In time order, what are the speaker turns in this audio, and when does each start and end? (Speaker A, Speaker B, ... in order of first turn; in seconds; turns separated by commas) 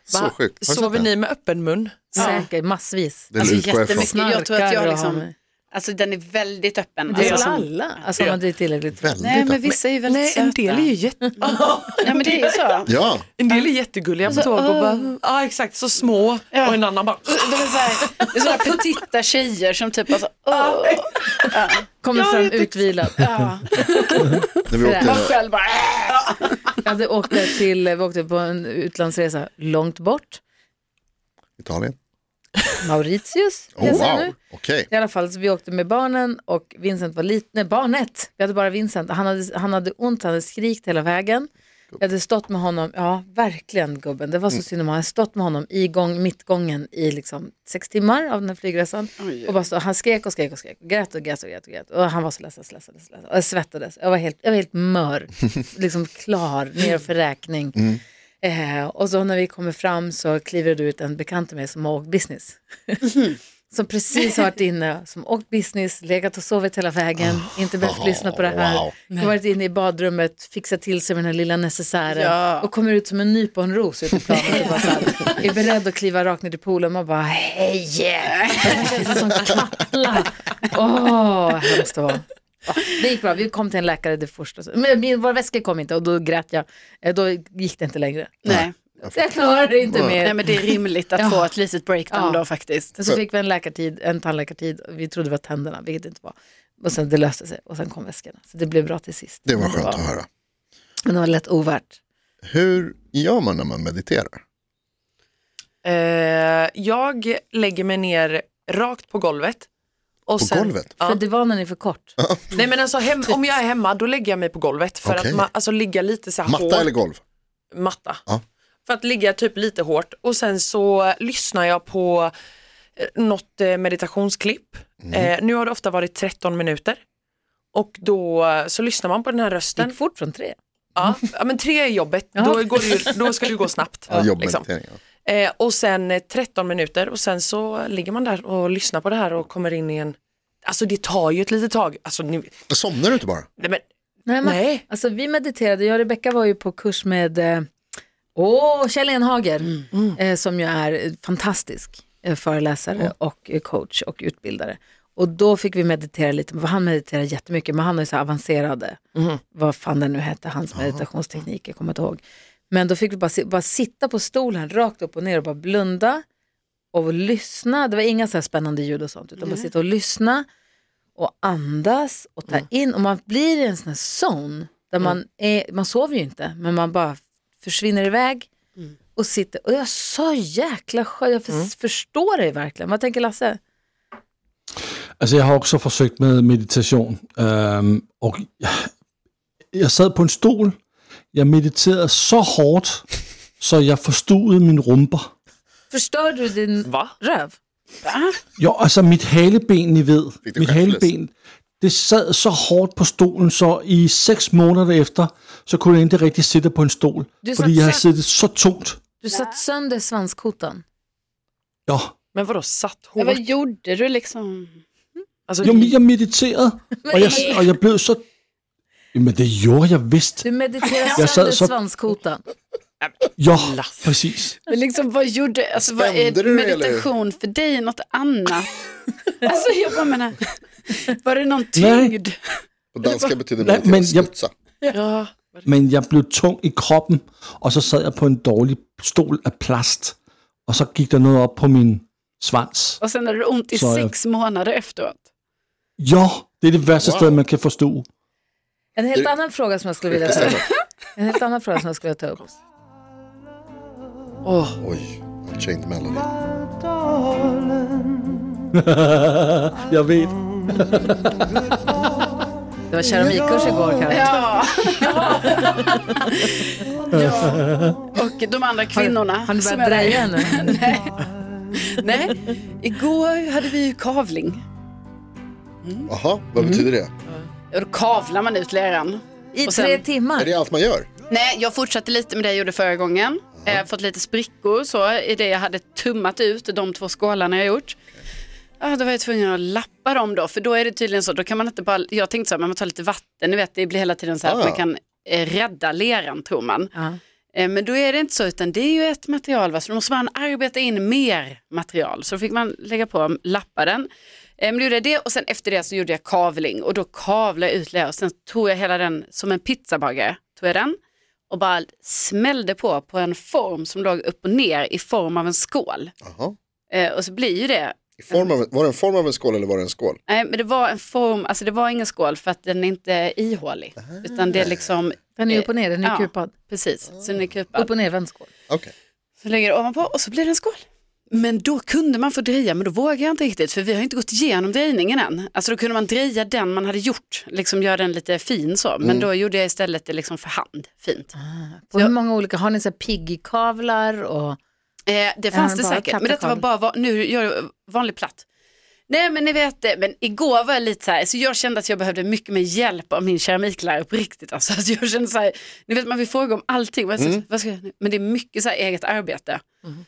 Speaker A: 0.1-1.1, Speaker B: 0.1-2.4, Speaker C: 2.1-2.5, Speaker D: 2.2-5.3, Speaker A: 3.3-4.1, Speaker C: 3.4-8.3, Speaker D: 7.1-9.4, Speaker B: 7.2-7.5, Speaker A: 8.9-9.7, Speaker C: 9.2-12.9, Speaker B: 10.1-12.7, Speaker A: 12.9-13.3, Speaker B: 13.4-18.3, Speaker C: 14.3-15.1, Speaker C: 16.5-24.5, Speaker B: 20.5-21.7, Speaker D: 22.0-23.3, Speaker A: 24.7-25.3, Speaker D: 24.7-25.2, Speaker C: 25.0-26.8, Speaker D: 26.8-30.4, Speaker A: 31.6-32.0, Speaker D: 32.8-34.4, Speaker A: 33.8-34.9, Speaker D: 34.9-57.9, Speaker C: 49.2-49.5, Speaker A: 57.8-58.0, Speaker D: 58.4-63.1, Speaker D: 63.7-88.4, Speaker A: 67.2-68.9, Speaker C: 72.1-72.7, Speaker C: 74.5-75.3, Speaker C: 78.3-79.0, Speaker C: 88.5-88.8, Speaker A: 88.5-89.1, Speaker D: 89.1-91.5, Speaker A: 89.9-90.2, Speaker C: 90.2-92.9, Speaker D: 92.1-92.4, Speaker D: 93.0-100.0, Speaker A: 99.5-100.3, Speaker D: 101.0-102.0, Speaker A: 102.4-104.4, Speaker B: 105.8-109.7, Speaker B: 110.3-111.2, Speaker A: 110.4-110.9, Speaker D: 111.0-112.2, Speaker A: 112.2-112.6, Speaker B: 112.5-117.0, Speaker A: 115.0-115.5, Speaker A: 116.5-117.2, Speaker B: 117.7-118.2, Speaker B: 118.9-122.3, Speaker B: 123.0-127.0, Speaker A: 125.0-125.3, Speaker B: 127.7-130.0, Speaker D: 129.8-130.6, Speaker B: 131.0-134.7, Speaker D: 132.3-133.1, Speaker A: 134.1-135.0, Speaker B: 135.2-142.5, Speaker A: 142.7-143.5, Speaker B: 143.6-143.8, Speaker D: 144.3-147.7, Speaker B: 144.4-144.8, Speaker D: 148.3-159.0, Speaker B: 149.9-150.2, Speaker D: 159.5-166.2, Speaker D: 166.9-170.5, Speaker C: 169.4-169.7, Speaker D: 171.2-178.5, Speaker D: 179.2-183.6, Speaker E: 185.2-188.9, Speaker E: 189.7-190.8, Speaker E: 191.3-193.1, Speaker E: 193.6-195.3, Speaker D: 195.9-197.6, Speaker B: 196.8-197.1, Speaker C: 198.1-198.4, Speaker E: 198.6-209.0, Speaker A: 200.4-201.1, Speaker D: 207.4-208.1, Speaker D: 209.2-210.8, Speaker E: 211.9-212.1, Speaker B: 212.3-213.4, Speaker C: 213.2-214.8, Speaker B: 215.5-215.9, Speaker E: 215.6-218.2, Speaker D: 217.0-217.8, Speaker C: 217.2-217.6, Speaker E: 219.1-220.5, Speaker D: 220.4-222.4, Speaker E: 221.2-221.7, Speaker B: 223.0-224.1, Speaker E: 223.4-224.6, Speaker C: 224.7-228.7, Speaker A: 225.8-227.1, Speaker C: 229.4-232.4, Speaker E: 231.8-232.1, Speaker A: 232.9-234.5, Speaker C: 233.0-233.3, Speaker E: 233.6-234.3, Speaker B: 234.8-235.7, Speaker E: 235.7-240.2, Speaker E: 240.7-243.0, Speaker C: 243.0-245.2, Speaker E: 243.7-244.1, Speaker E: 246.0-248.1, Speaker A: 247.0-247.4, Speaker D: 249.0-252.6, Speaker A: 250.1-250.7, Speaker B: 254.4-254.8, Speaker A: 254.8-256.3, Speaker E: 258.8-261.5, Speaker D: 262.9-264.6, Speaker C: 264.1-274.6, Speaker D: 265.4-266.5, Speaker E: 267.3-267.9, Speaker D: 268.9-270.8, Speaker C: 275.8-276.9, Speaker A: 276.1-277.1, Speaker C: 277.7-280.0, Speaker D: 279.5-280.5, Speaker A: 280.4-281.1, Speaker C: 281.3-288.0, Speaker C: 288.8-296.9, Speaker A: 294.4-294.8, Speaker C: 297.5-311.0, Speaker C: 311.5-316.1, Speaker A: 316.2-316.6, Speaker C: 316.9-318.6, Speaker A: 318.2-320.2, Speaker C: 320.3-327.9, Speaker A: 324.0-324.7, Speaker D: 325.4-326.5, Speaker D: 327.8-328.5, Speaker C: 329.4-341.3, Speaker A: 339.0-339.3, Speaker D: 341.4-344.6, Speaker C: 345.1-348.4, Speaker D: 345.5-346.6, Speaker C: 349.1-359.6